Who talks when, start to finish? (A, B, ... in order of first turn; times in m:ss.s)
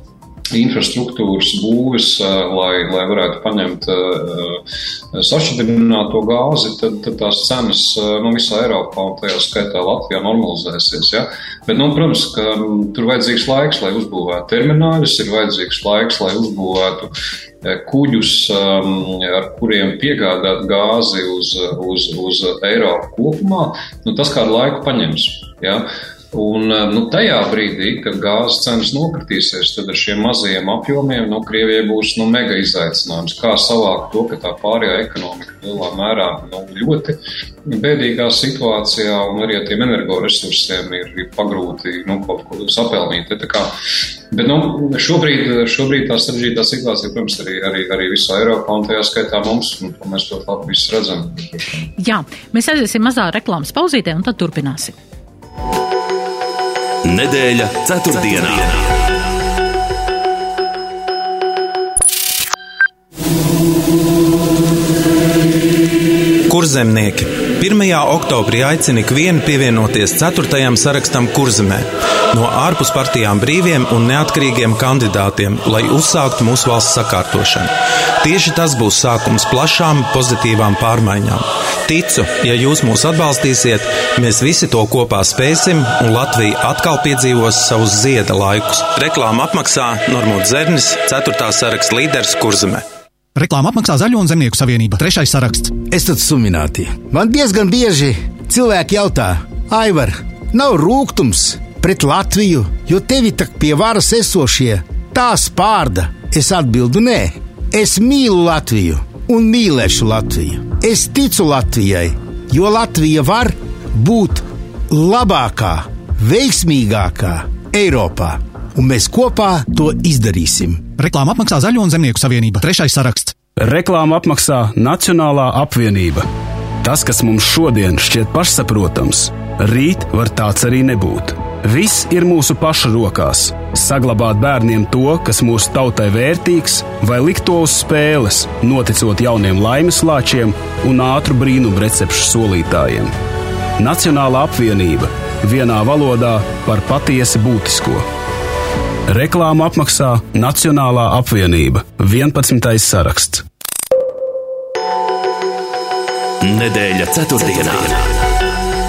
0:00.5-0:43.7 A
0:44.3-0:51.7 A
0:52.0-0:55.0 B
0:57.0-0:59.2 C
1:06.5-1:32.8 D
1:33.4-1:35.8 E
1:35.8-2:00.9 F
2:01.0-2:03.4 E
2:03.6-2:06.3 G
2:06.8-2:23.1 G
2:23.8-2:28.1 G
2:29.1-2:33.5 G
2:36.4-2:38.4 C